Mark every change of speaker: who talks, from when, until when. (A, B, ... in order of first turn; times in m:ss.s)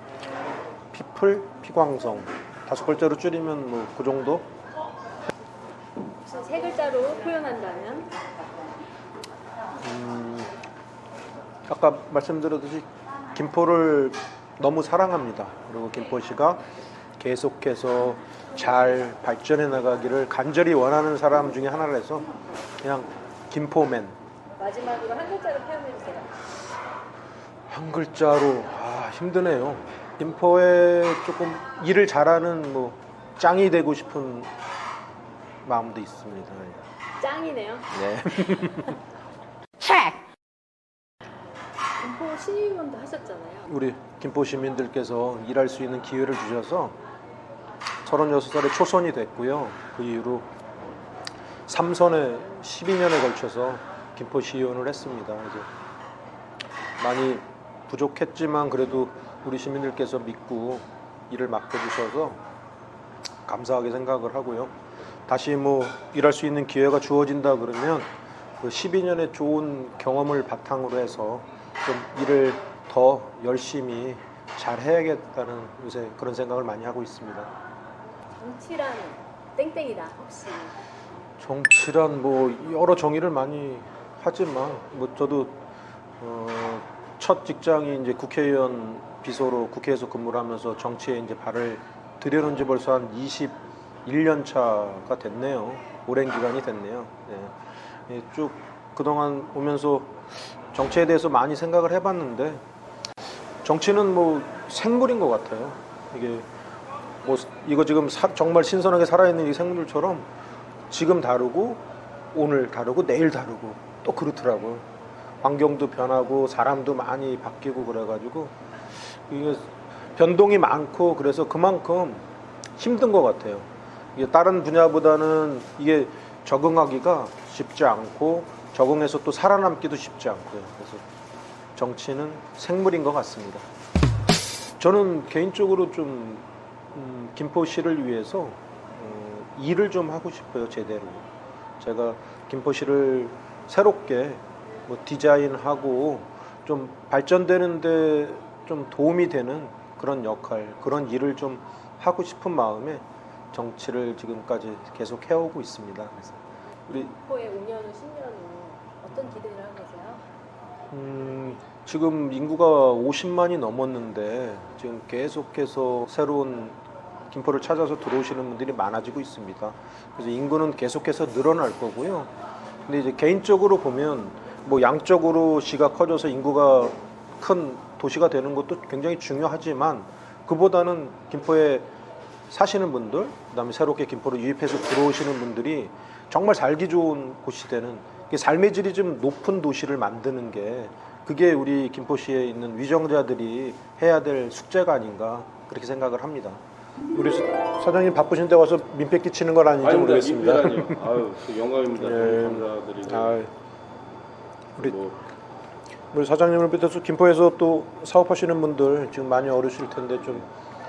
0:00.9-0:04.5 A
0:06.2-0:08.2 B
0:09.8-0:10.5 A
0:11.7-0:16.6 A
0:17.2-0:22.3 A
0:22.8-0:24.2 A
0:24.6-0:26.3 B
0:27.7-0:34.5 A
0:35.6-0:36.8 A
0:37.2-0:37.9 B
0:37.9-0:39.0 A
0:39.8-0:40.1 B
0:42.0-0:43.7 B
0:43.7-0:47.0 A
0:48.0-0:50.5 A
0:51.7-0:55.7 A
0:57.0-1:02.4 A
1:03.4-1:04.7 A
1:05.3-1:08.1 A
1:08.6-1:17.5 A
1:18.3-1:20.7 B
1:21.4-1:25.6 A
1:26.2-1:42.6 A
1:43.6-1:46.4 A
1:47.2-1:50.3 A
1:50.9-1:54.8 A
1:55.4-2:02.2 A
2:02.8-2:11.0 A
2:11.8-2:13.6 A
2:14.8-2:21.3 A
2:21.8-2:37.1 A
2:37.2-2:40.2 B
2:40.9-2:46.8 A
2:47.3-2:52.3 A
2:52.8-3:01.9 A
3:02.5-3:16.6 A
3:17.1-3:21.1 A
3:19.8-3:23.4 C
3:22.0-3:23.5 A
3:24.8-3:25.2 C
3:26.1-3:30.5 A